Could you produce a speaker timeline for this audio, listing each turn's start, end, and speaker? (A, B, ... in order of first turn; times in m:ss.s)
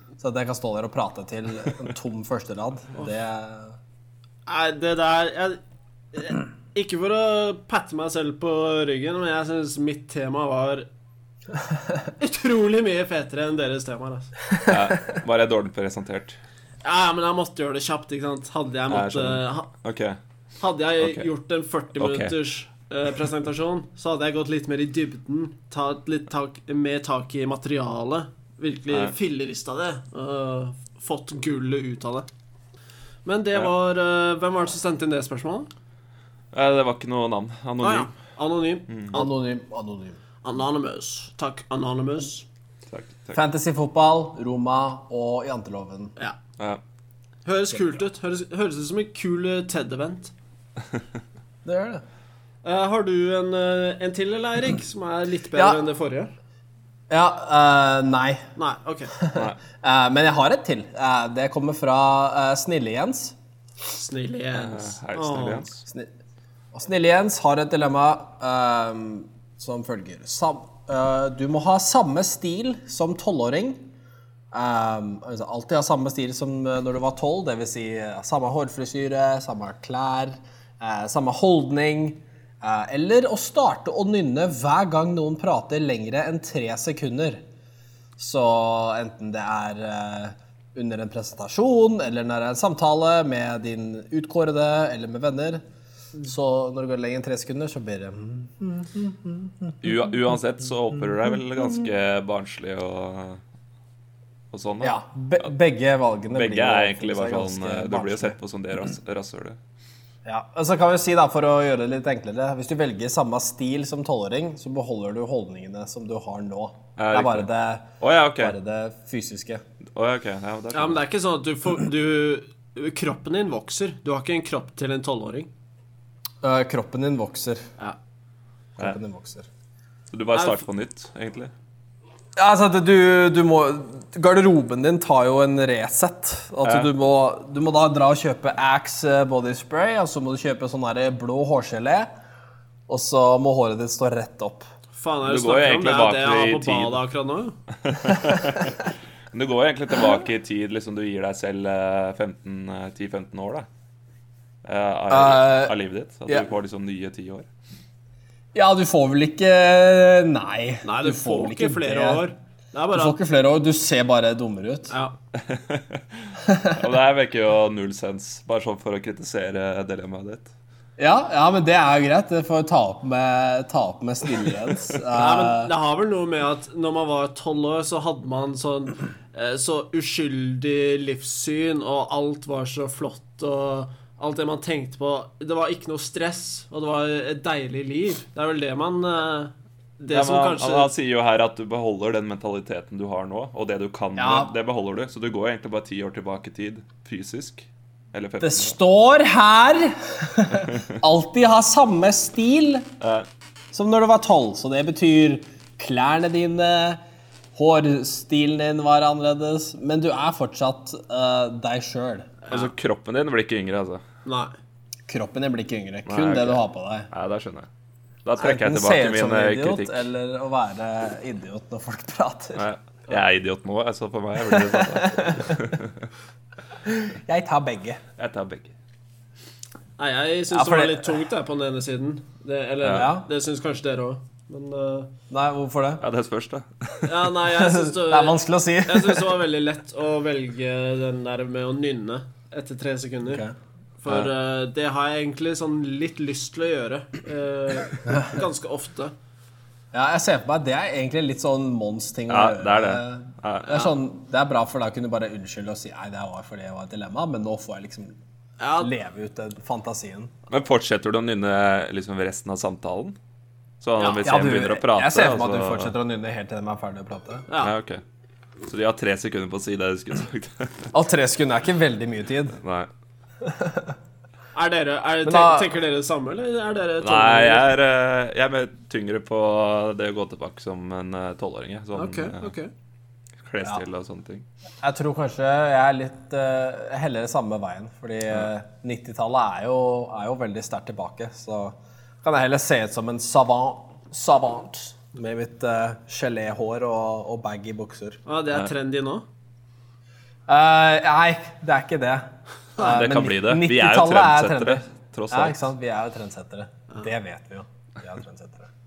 0:00.2-0:03.8 A
0:04.4-0:05.6 B
0:06.1-0:10.9 B
0:12.2-0:14.3 B
0:14.6-0:16.4 C
0:16.8-0:19.7 B
0:18.9-0:20.2 C
0:20.6-0:32.3 B
0:21.0-0:21.3 C
0:22.0-0:22.4 C
0:33.2-0:35.7 B
0:36.5-0:38.1 C
0:37.8-0:39.4 B
0:38.9-0:39.1 C
0:39.1-0:40.2 A
0:40.4-0:42.4 B
0:42.9-0:43.4 C
0:43.3-0:46.1 A
0:47.4-0:50.3 B
0:51.6-0:52.0 A
0:52.6-0:56.3 B
0:55.5-0:55.8 A
0:57.1-0:58.5 A
0:58.6-0:59.2 B
0:59.1-1:03.3 A
0:59.3-0:59.6 C
1:03.8-1:05.6 B
1:04.5-1:05.8 C
1:06.7-1:13.9 A
1:14.5-1:27.4 A
1:28.2-1:35.6 A
1:36.2-1:39.7 A
1:39.8-1:43.4 C
1:44.5-1:45.5 C
1:44.8-1:48.4 A
1:46.3-1:49.6 C
1:50.2-1:57.9 A
1:57.0-1:57.5 C
1:58.0-1:58.6 C
1:58.4-1:59.6 A
1:59.9-2:01.0 C
2:00.7-2:05.5 B
2:06.4-2:07.7 A
2:08.8-2:09.5 A
2:10.1-2:11.5 C
2:10.3-2:10.6 B
2:12.4-2:22.1 A
2:16.6-2:16.9 C
2:22.9-2:24.6 A
2:24.9-2:27.6 B
2:25.2-2:27.0 C
2:27.8-2:33.6 C
2:34.6-2:37.5 C
2:35.1-2:35.7 A
2:38.5-2:42.2 A
2:40.8-2:43.2 B
2:42.9-2:44.9 A
2:44.9-2:45.2 B
2:45.3-2:50.5 C
2:46.4-2:46.8 A
2:51.0-2:55.7 A
2:55.1-3:10.9 B
3:10.1-3:18.8 C
3:14.2-3:14.5 A
3:18.4-3:22.9 A
3:23.0-3:23.3 C
3:23.7-3:27.0 A
3:27.5-3:32.3 A
3:32.5-3:34.0 C
3:34.2-3:34.5 B
3:35.1-3:37.1 A
3:36.0-3:37.7 C
3:38.2-3:40.0 C
3:38.4-3:42.6 A
3:42.6-3:46.1 C
3:44.4-3:45.7 A
3:46.8-3:48.0 A
3:48.2-3:48.7 C
3:50.0-3:55.1 B
3:50.5-3:51.1 A
3:52.9-3:53.2 A
3:55.3-3:56.0 A
3:56.0-3:57.2 C
3:57.0-4:03.4 B
3:57.5-3:59.4 A
4:03.2-4:03.5 A
4:04.0-4:09.1 B
4:09.9-4:18.2 A
4:12.3-4:13.8 C
4:18.6-4:18.9 B
4:18.8-4:20.3 A
4:20.5-4:23.2 C
4:23.8-4:25.9 C
4:24.0-4:24.3 B
4:24.2-4:27.5 A
4:27.6-4:28.0 C
4:28.6-4:30.9 C
4:30.9-4:32.6 A
4:32.6-4:32.9 C
4:33.4-4:33.9 A
4:34.5-4:37.7 B
4:35.2-4:35.7 A
4:37.0-4:42.5 C
4:41.9-4:42.7 B
4:43.4-4:44.4 C
4:44.8-4:58.2 A
4:58.2-4:59.2 B
5:00.5-5:08.7 A
5:02.8-5:05.6 C